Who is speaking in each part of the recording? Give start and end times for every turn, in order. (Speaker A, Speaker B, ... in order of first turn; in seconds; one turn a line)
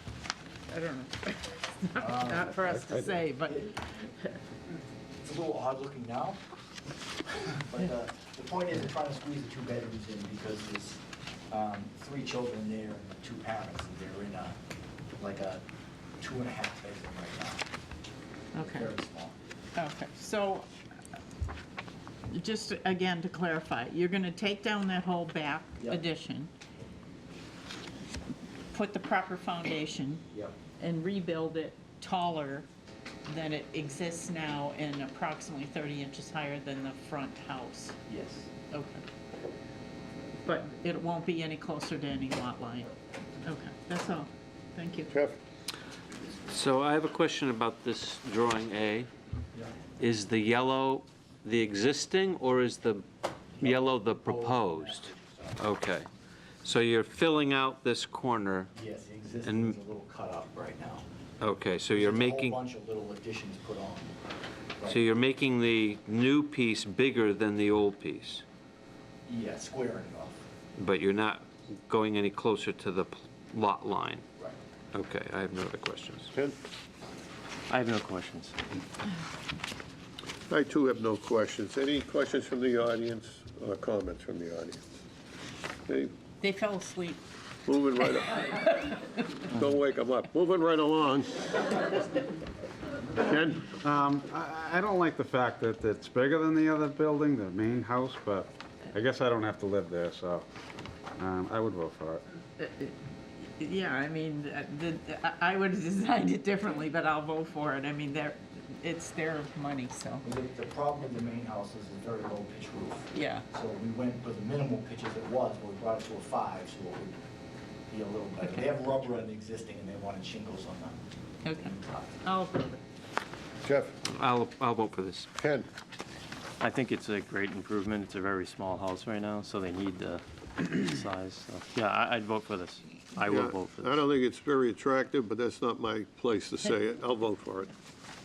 Speaker A: 0.7-4.3
Speaker B: 2.0-2.6
Speaker C: 2.6-3.2
Speaker B: 3.5-3.7
Speaker B: 5.2-6.4
Speaker B: 7.3-14.6
Speaker B: 15.2-15.6
Speaker B: 16.2-17.7
Speaker A: 18.6-18.9
Speaker B: 18.6-19.3
Speaker A: 19.8-20.7
Speaker A: 22.3-26.5
Speaker A: 28.7-30.2
Speaker A: 30.8-32.7
Speaker A: 33.3-38.0
Speaker B: 38.1-38.5
Speaker A: 38.7-39.0
Speaker A: 40.5-42.9
Speaker A: 43.4-45.1
Speaker D: 45.1-45.4
Speaker E: 46.5-49.1
Speaker E: 50.0-53.0
Speaker B: 53.6-55.6
Speaker E: 53.6-54.9
Speaker E: 55.6-56.1
Speaker E: 56.6-58.7
Speaker B: 58.7-61.0
Speaker E: 59.5-59.7
Speaker E: 61.4-62.6
Speaker B: 61.9-64.1
Speaker B: 64.8-65.0
Speaker E: 64.9-68.4
Speaker B: 69.3-70.4
Speaker E: 70.8-74.2
Speaker E: 74.9-76.3
Speaker F: 77.7-78.6
Speaker D: 80.5-84.8
Speaker D: 85.9-86.1
Speaker A: 86.4-87.2
Speaker D: 87.7-88.9
Speaker A: 88.0-88.9
Speaker D: 89.5-92.0
Speaker D: 93.2-93.8
Speaker C: 93.7-100.4
Speaker C: 101.2-102.2
Speaker A: 102.6-110.2
Speaker B: 110.2-117.2
Speaker A: 113.1-113.4
Speaker B: 117.9-121.0
Speaker A: 121.4-122.8
Speaker D: 123.6-124.0
Speaker E: 124.1-125.3
Speaker D: 125.4-125.7
Speaker F: 126.6-134.1
Speaker D: 133.2-137.7